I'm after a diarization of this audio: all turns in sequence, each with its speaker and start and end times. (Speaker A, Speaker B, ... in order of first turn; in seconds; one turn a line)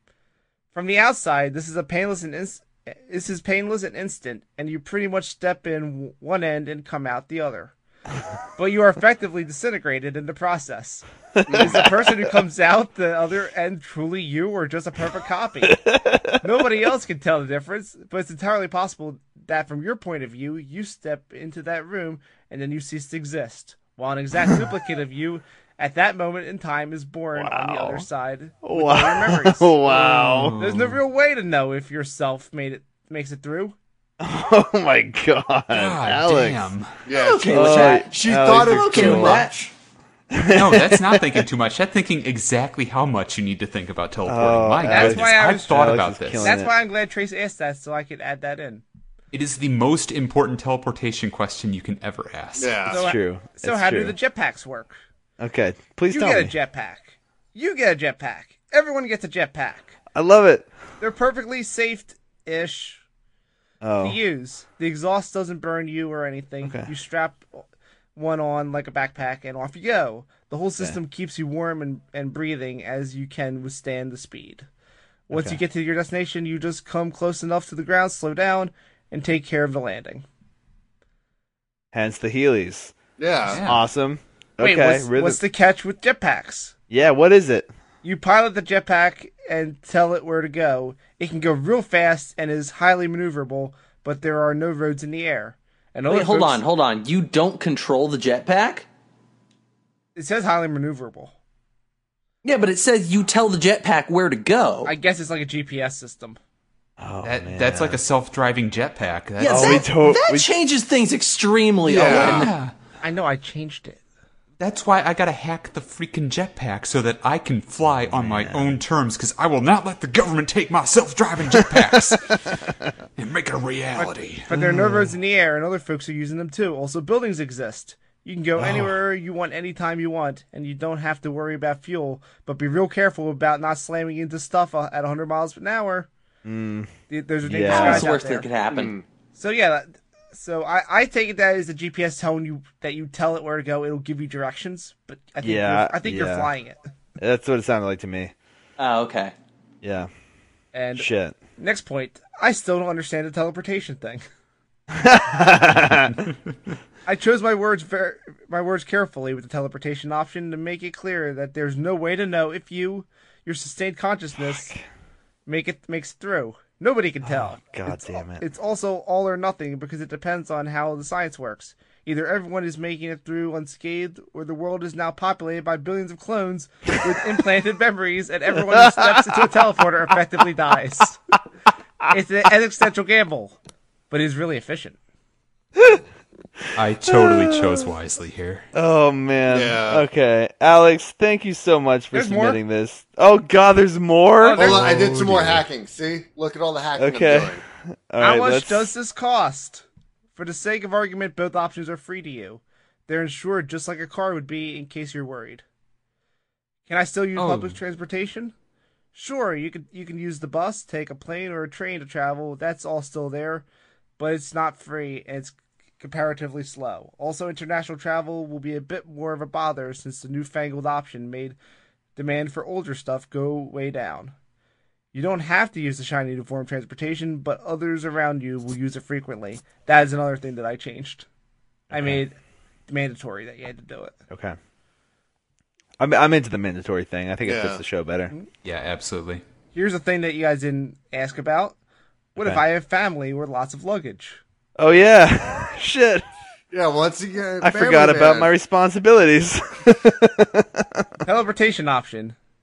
Speaker A: 0.7-7.7
Speaker A: 8.6-15.8
Speaker B: 11.4-12.1
Speaker C: 11.5-11.8
Speaker B: 15.6-16.4
Speaker A: 16.4-33.8
Speaker B: 27.3-28.1
Speaker B: 28.6-30.6
Speaker D: 30.0-31.0
Speaker B: 34.2-36.7
Speaker D: 35.7-36.9
Speaker C: 37.0-39.7
Speaker E: 37.1-39.5
Speaker B: 37.5-39.5
Speaker B: 40.3-41.4
Speaker D: 40.5-46.6
Speaker B: 44.2-46.7
Speaker A: 44.8-48.8
Speaker D: 49.3-52.8
Speaker C: 52.6-53.0
Speaker B: 52.9-54.1
Speaker A: 52.9-55.0
Speaker B: 55.4-56.5
Speaker A: 56.1-60.0
Speaker B: 60.1-60.7
Speaker A: 61.0-63.0
Speaker B: 63.8-64.2
Speaker A: 64.0-74.7
Speaker B: 66.6-66.9
Speaker A: 75.3-80.2
Speaker B: 75.3-75.6
Speaker B: 81.9-82.9
Speaker C: 83.2-83.6
Speaker D: 83.5-83.8
Speaker B: 83.5-85.4
Speaker A: 84.6-86.7
Speaker B: 86.9-87.7
Speaker A: 88.0-96.6
Speaker E: 96.1-98.8
Speaker A: 100.2-101.3
Speaker E: 102.4-104.9
Speaker A: 104.8-106.4
Speaker B: 107.0-108.0
Speaker D: 107.2-109.8
Speaker E: 109.4-112.5
Speaker B: 109.4-110.5
Speaker C: 111.9-112.5
Speaker D: 111.9-112.7
Speaker A: 113.0-114.0
Speaker D: 114.6-122.6
Speaker B: 118.1-118.8
Speaker B: 121.6-122.1
Speaker D: 123.2-124.5
Speaker A: 124.0-136.1
Speaker B: 124.5-125.1
Speaker B: 128.6-128.9
Speaker B: 136.4-136.9
Speaker A: 137.1-138.5
Speaker B: 137.4-138.1
Speaker E: 137.7-138.9
Speaker C: 138.7-139.0
Speaker A: 139.3-146.8
Speaker B: 145.4-146.5
Speaker B: 147.2-148.3
Speaker E: 148.8-149.3
Speaker B: 149.8-150.1
Speaker A: 150.7-154.2
Speaker B: 150.9-151.4
Speaker B: 154.9-156.3
Speaker A: 157.1-164.7
Speaker B: 164.4-164.8
Speaker A: 165.4-181.2
Speaker B: 167.2-168.4
Speaker B: 178.6-179.5
Speaker A: 182.1-183.6
Speaker A: 184.1-185.0
Speaker B: 185.8-186.0
Speaker B: 186.6-187.9
Speaker D: 186.7-188.7
Speaker B: 188.7-194.9
Speaker C: 189.5-190.0
Speaker A: 192.1-192.6
Speaker A: 194.4-194.9
Speaker D: 194.6-195.6
Speaker C: 194.6-197.6
Speaker B: 196.9-198.9
Speaker A: 198.2-205.6
Speaker A: 206.9-208.5
Speaker D: 207.3-207.8
Speaker A: 209.1-213.6
Speaker A: 214.2-221.6
Speaker A: 222.2-224.3
Speaker A: 225.1-231.2
Speaker B: 231.9-232.2
Speaker A: 231.9-232.3
Speaker A: 232.9-234.1
Speaker B: 234.3-234.6
Speaker B: 236.0-238.3
Speaker C: 237.4-237.8
Speaker D: 238.6-239.4
Speaker A: 239.7-241.8
Speaker B: 242.3-242.6
Speaker A: 242.3-244.4
Speaker B: 244.8-246.2
Speaker C: 246.7-248.5
Speaker B: 247.6-251.2
Speaker A: 251.2-252.3